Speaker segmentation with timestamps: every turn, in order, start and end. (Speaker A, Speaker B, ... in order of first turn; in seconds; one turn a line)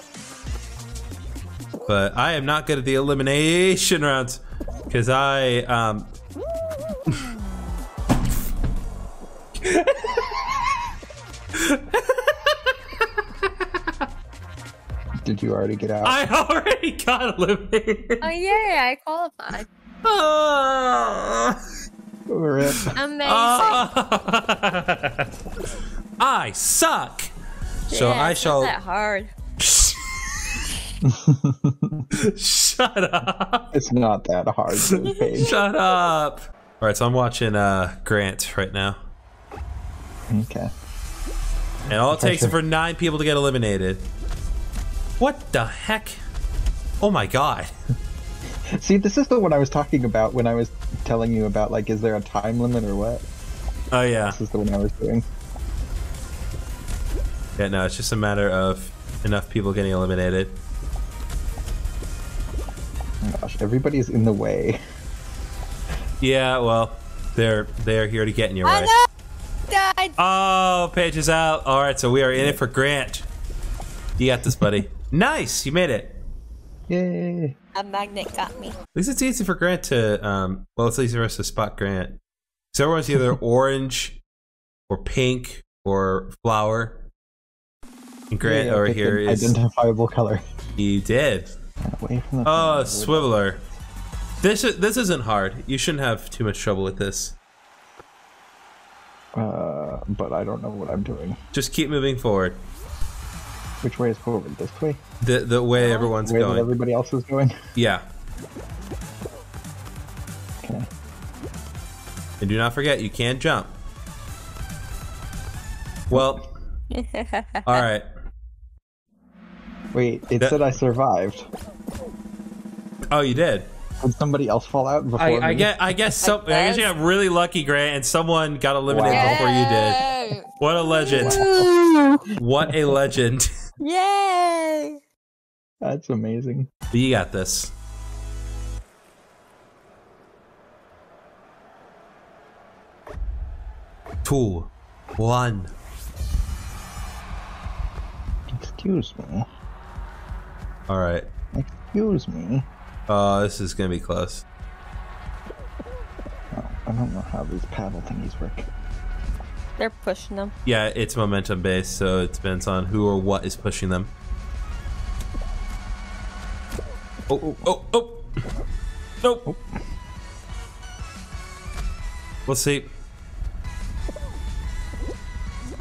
Speaker A: 1.9-6.1
Speaker A: 9.6-10.6
Speaker A: 11.6-13.7
Speaker B: 15.2-16.2
Speaker A: 16.0-18.2
Speaker C: 18.2-19.7
Speaker A: 20.0-21.6
Speaker B: 22.3-23.0
Speaker A: 22.8-25.3
Speaker C: 22.9-23.9
Speaker A: 26.2-27.3
Speaker C: 27.9-29.3
Speaker A: 27.9-28.7
Speaker A: 29.6-30.1
Speaker B: 31.0-32.1
Speaker A: 32.1-33.7
Speaker B: 33.7-35.6
Speaker A: 34.8-39.0
Speaker B: 40.3-40.7
Speaker B: 41.9-42.6
Speaker A: 41.9-44.1
Speaker A: 45.2-46.2
Speaker A: 47.0-47.7
Speaker B: 48.7-53.2
Speaker A: 53.9-54.4
Speaker B: 54.3-55.2
Speaker A: 57.6-60.6
Speaker B: 63.2-64.8
Speaker A: 66.2-68.9
Speaker C: 68.7-69.1
Speaker C: 69.7-70.2
Speaker A: 70.2-73.3
Speaker A: 74.2-76.2
Speaker B: 76.9-77.5
Speaker C: 77.8-78.8
Speaker A: 79.0-82.2
Speaker A: 82.7-84.2
Speaker A: 84.9-87.0
Speaker A: 88.3-89.5
Speaker B: 88.4-90.4
Speaker A: 90.8-91.5
Speaker B: 91.8-93.3
Speaker A: 92.5-93.6
Speaker A: 94.4-97.3
Speaker B: 99.3-101.4
Speaker A: 101.5-102.6
Speaker B: 103.8-105.0
Speaker A: 105.2-106.7
Speaker C: 105.8-106.1
Speaker B: 106.1-107.6
Speaker A: 107.8-108.0
Speaker A: 112.4-113.7
Speaker A: 116.1-116.5
Speaker C: 116.9-117.8
Speaker A: 117.7-118.0
Speaker B: 119.9-121.5
Speaker A: 123.1-123.7
Speaker B: 124.0-125.7
Speaker A: 125.2-130.0
Speaker C: 126.2-126.9
Speaker B: 128.9-129.5
Speaker C: 129.1-132.2
Speaker A: 130.6-131.4
Speaker B: 131.1-131.7
Speaker A: 132.4-133.5
Speaker C: 133.8-135.0
Speaker B: 135.8-136.7
Speaker A: 136.9-137.7
Speaker A: 144.2-145.7
Speaker B: 148.5-149.5
Speaker A: 150.9-151.3
Speaker B: 151.5-152.7
Speaker A: 153.1-154.4
Speaker B: 156.5-158.7
Speaker C: 159.8-160.5
Speaker A: 160.7-164.1
Speaker A: 167.3-168.4
Speaker A: 169.2-169.5
Speaker A: 172.5-172.9